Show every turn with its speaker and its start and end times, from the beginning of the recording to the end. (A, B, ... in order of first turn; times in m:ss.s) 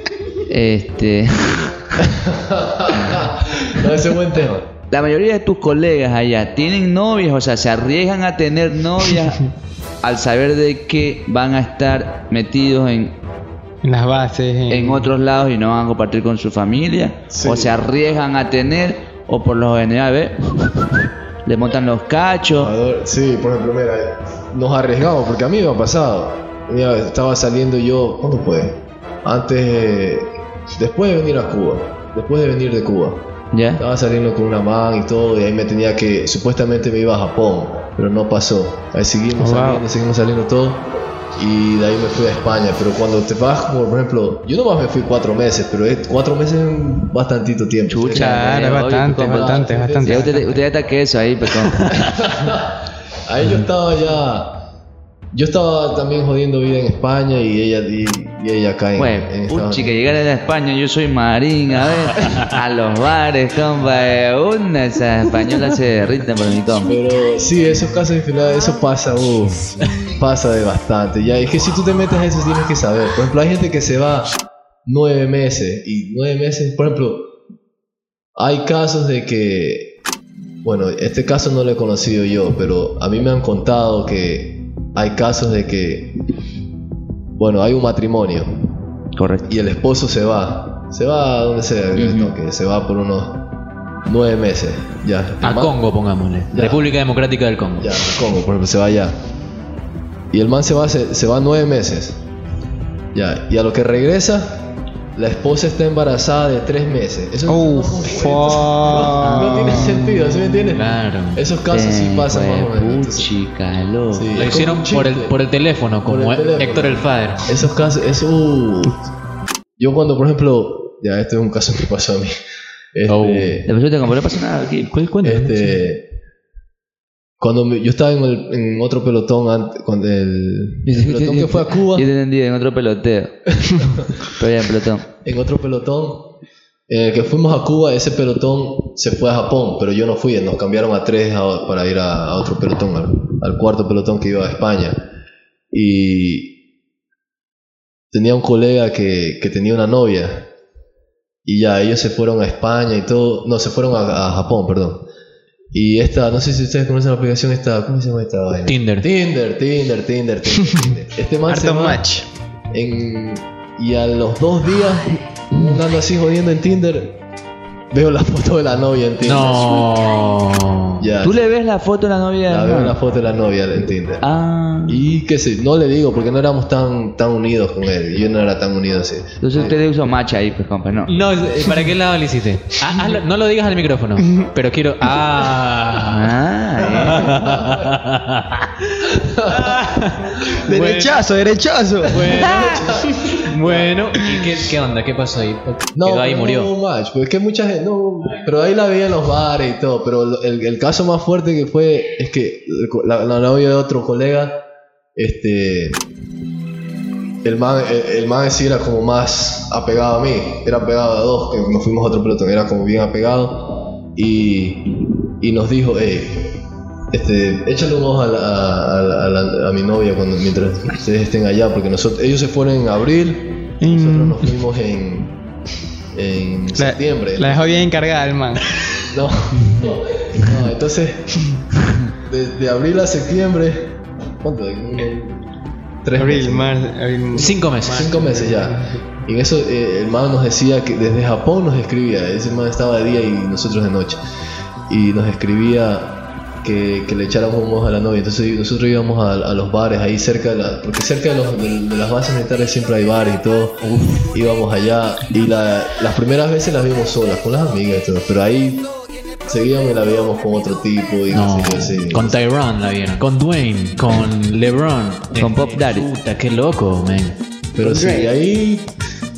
0:00.5-0:01.7 A
0:02.0-0:04.7 B
0:04.9-0:09.5 A
0:10.0-0:13.2 A
0:13.8-0:15.1 C
0:14.7-0:20.8 A
0:17.3-0:17.8 B
0:21.4-0:22.7 A
0:22.5-0:33.2 B
0:33.5-0:33.8 A
0:33.8-0:48.8 B
0:39.4-0:39.8 C
0:47.9-0:51.8 A
0:48.1-0:50.5 C
0:49.3-0:50.5 B
0:51.9-0:54.5 B
0:55.3-1:00.0 B
0:59.0-1:06.9 A
1:06.9-1:14.3 B
1:14.8-1:17.2 B
1:18.4-1:19.9 B
1:20.6-1:26.1 B
1:27.4-1:28.5 B
1:29.1-1:29.4 A
1:29.4-1:33.4 B
1:32.0-1:32.3 A
1:34.0-1:35.8 B
1:35.4-1:38.0 D
1:36.5-1:36.8 B
1:37.8-1:39.2 B
1:40.3-1:42.2 B
1:43.1-1:53.3 B
1:47.5-1:50.2 C
1:49.2-1:49.8 A
1:50.7-1:51.4 D
1:51.7-1:54.3 A
1:54.1-1:55.3 B
1:54.3-1:57.5 D
1:56.0-1:59.0 B
1:59.8-2:02.3 B
2:02.9-2:03.7 B
2:03.1-2:03.6 D
2:03.6-2:04.9 A
2:04.9-2:05.8 D
2:05.2-2:06.0 B
2:07.4-2:12.1 B
2:10.8-2:13.3 A
2:13.6-2:14.1 B
2:14.2-2:15.0 A
2:15.2-2:16.2 B
2:16.9-2:25.0 B
2:25.7-2:26.5 B
2:28.1-2:30.5 B
2:31.4-2:35.0 B
2:35.7-2:42.0 B
2:38.6-2:39.1 D
2:41.5-2:42.3 C
2:42.7-2:47.2 B
2:47.9-2:49.9 B
2:49.2-2:51.1 D
2:51.0-2:51.4 B
2:51.2-2:52.9 A
2:52.5-2:54.2 B
2:54.2-2:55.0 A
2:54.8-2:59.8 B
2:59.4-3:01.1 A
3:01.1-3:08.7 D
3:06.1-3:07.3 A
3:07.3-3:07.9 B
3:09.0-3:09.9 B
3:09.5-3:11.3 D
3:10.6-3:13.4 C
3:12.1-3:12.9 D
3:12.2-3:13.9 B
3:13.4-3:16.7 D
3:15.9-3:24.6 B
3:18.2-3:18.5 D
3:25.2-3:26.0 B
3:27.4-3:34.9 B
3:35.4-3:36.6 B
3:37.1-3:45.3 B
3:43.8-3:44.5 C
3:46.1-3:47.8 B
3:46.7-3:48.7 C
3:49.1-3:51.4 B
3:52.2-3:55.5 B
3:56.0-3:56.8 B
3:56.2-3:59.0 C
3:57.3-3:58.1 D
3:57.8-4:04.2 B
4:04.9-4:18.8 B
4:13.8-4:14.3 D
4:19.5-4:22.4 B
4:21.3-4:27.4 D
4:25.3-4:26.1 A
4:27.8-4:28.9 B
4:27.8-4:28.3 C